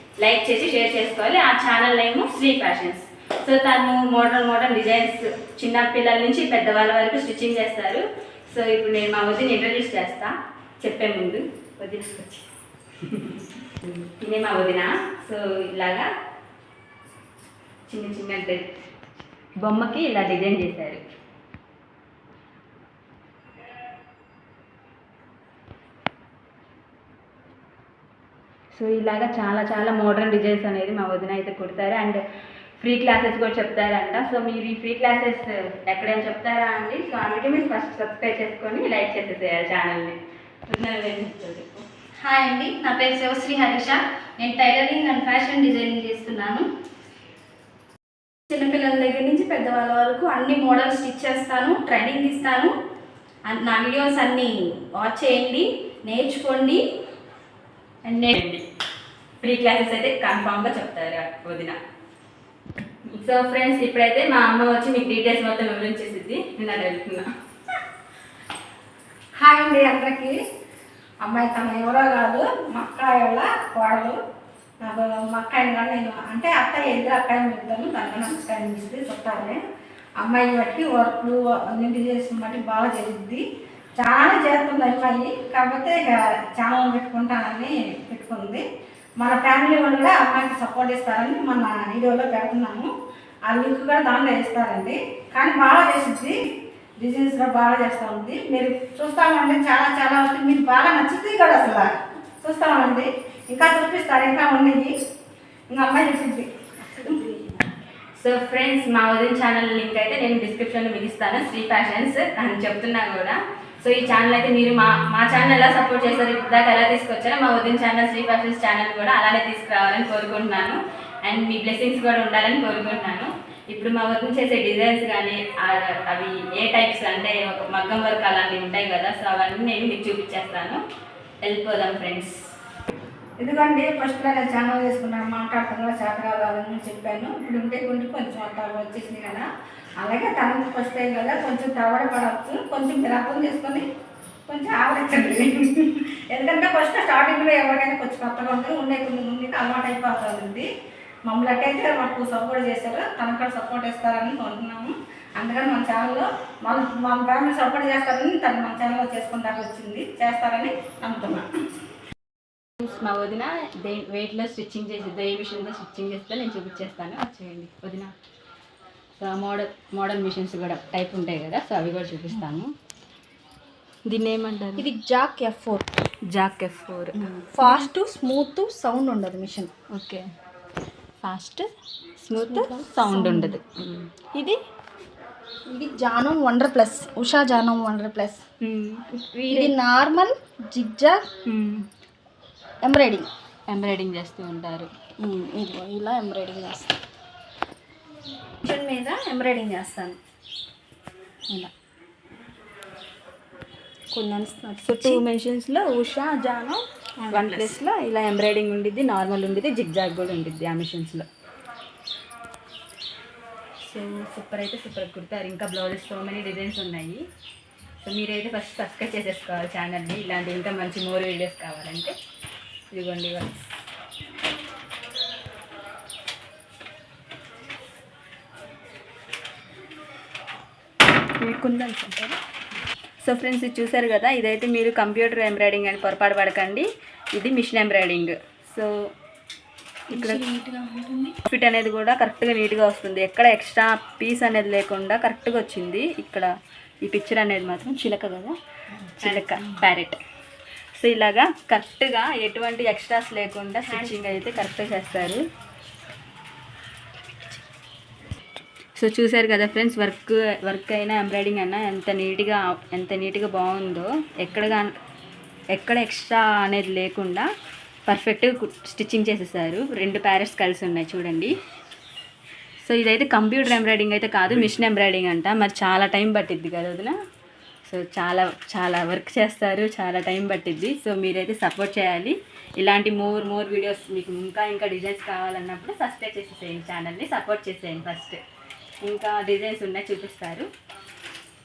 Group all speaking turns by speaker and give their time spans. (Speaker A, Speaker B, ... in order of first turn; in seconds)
Speaker A: 0.2-12.5, 13.0-16.1, 17.9-18.6, 19.6-21.0, 28.7-32.2, 32.8-40.1, 40.7-41.8, 58.0-58.6, 59.4-61.8, 63.1-67.3, 108.2-130.8, 131.4-132.4, 162.8-168.1, 169.2-172.7, 174.1-174.9, 176.3-177.9, 179.9-180.3, 181.2-184.6, 188.6-189.8, 191.4-191.9, 193.7-194.9, 204.8-211.3, 213.8-217.2, 218.0-222.2, 222.9-223.7, 231.4-232.3, 233.2-238.9, 240.1-240.4, 241.4-246.5, 247.0-248.5, 249.2-250.2, 250.9-255.4, 258.9-265.0, 265.7-267.5, 268.1-271.5, 272.8-277.1, 277.9-288.4, 289.0-290.7
Speaker B: 42.2-46.7, 48.5-52.7, 53.4-56.9, 107.0-107.5, 174.8-175.8, 177.2-179.7, 182.3-183.5, 185.7-188.4, 189.5-191.2, 192.8-193.3, 195.2-196.9, 198.6-200.2, 204.1-205.2, 207.2-207.8, 240.1-241.3, 249.2-249.7
Speaker C: 69.4-70.4, 71.2-74.2, 74.8-79.6, 80.2-83.4, 84.0-88.6, 89.2-92.9, 93.5-96.4, 97.0-101.9, 102.4-104.9, 105.7-106.5, 133.4-139.5, 140.0-143.8, 144.5-150.7, 151.3-161.5